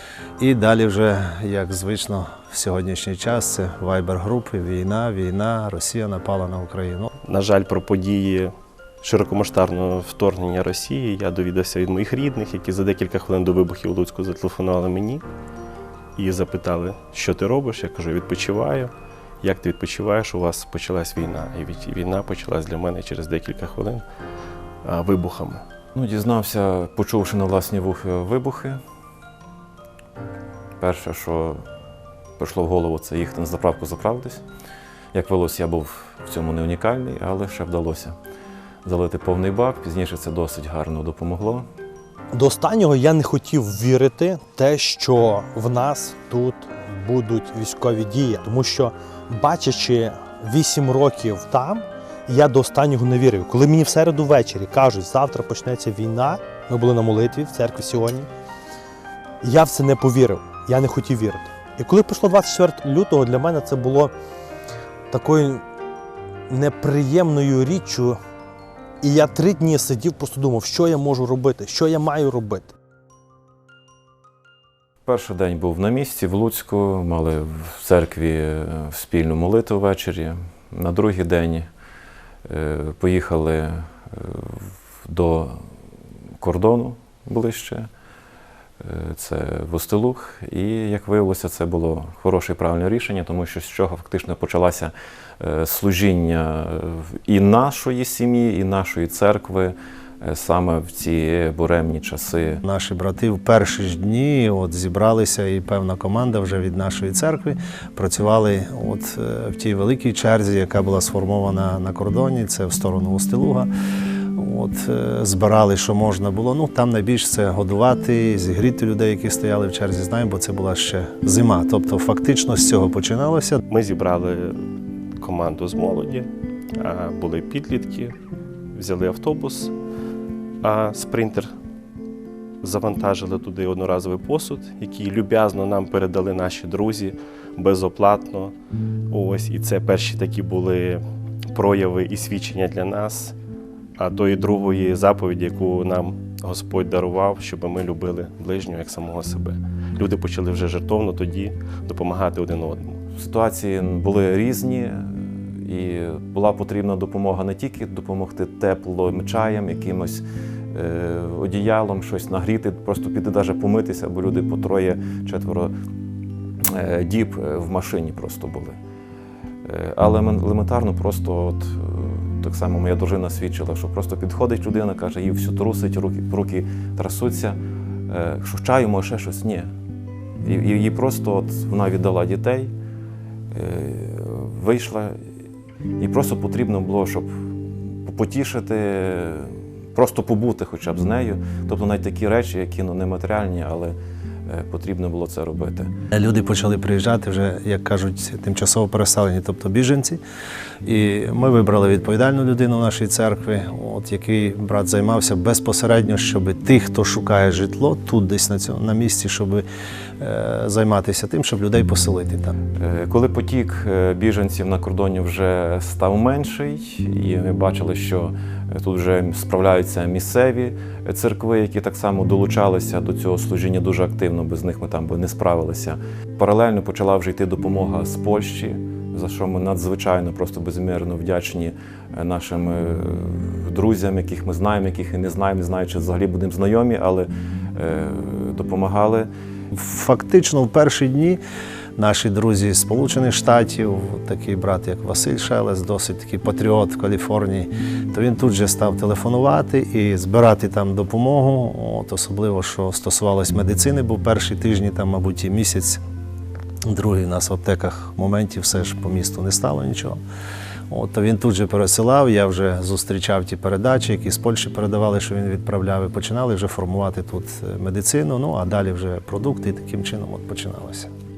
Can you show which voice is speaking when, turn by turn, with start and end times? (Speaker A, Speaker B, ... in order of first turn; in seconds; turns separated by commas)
Speaker A: 0.4-7.1, Speaker B: 7.2-15.2, Speaker B: 16.1-24.0, Speaker B: 24.8-25.6, Speaker C: 25.9-28.8, Speaker C: 30.8-31.6, Speaker C: 32.4-34.4, Speaker C: 35.1-38.1, Speaker C: 38.8-41.7, Speaker D: 42.3-58.3, Speaker D: 59.4-64.1, Speaker D: 65.1-65.6, Speaker D: 66.5-68.2, Speaker D: 69.0-72.7, Speaker C: 75.0-81.7, Speaker C: 82.5-85.7, Speaker C: 86.4-87.9, Speaker C: 88.8-102.6, Speaker A: 102.6-113.7, Speaker A: 114.3-123.6, Speaker B: 123.7-124.6, Speaker B: 125.2-128.2, Speaker B: 128.7-129.7, Speaker B: 130.6-131.5, Speaker B: 132.6-138.5, Speaker B: 139.1-143.3, Speaker B: 144.0-153.0, Speaker C: 153.1-165.7, Speaker C: 166.6-168.8, Speaker C: 169.6-179.7, Speaker C: 180.4-182.7, Speaker C: 183.5-185.2, Speaker C: 186.0-195.9, Speaker A: 196.1-200.2, Speaker A: 200.8-209.7, Speaker A: 210.2-212.5, Speaker C: 212.7-239.3, Speaker A: 239.7-241.4, Speaker A: 242.0-256.0, Speaker A: 256.9-260.2, Speaker A: 260.9-271.1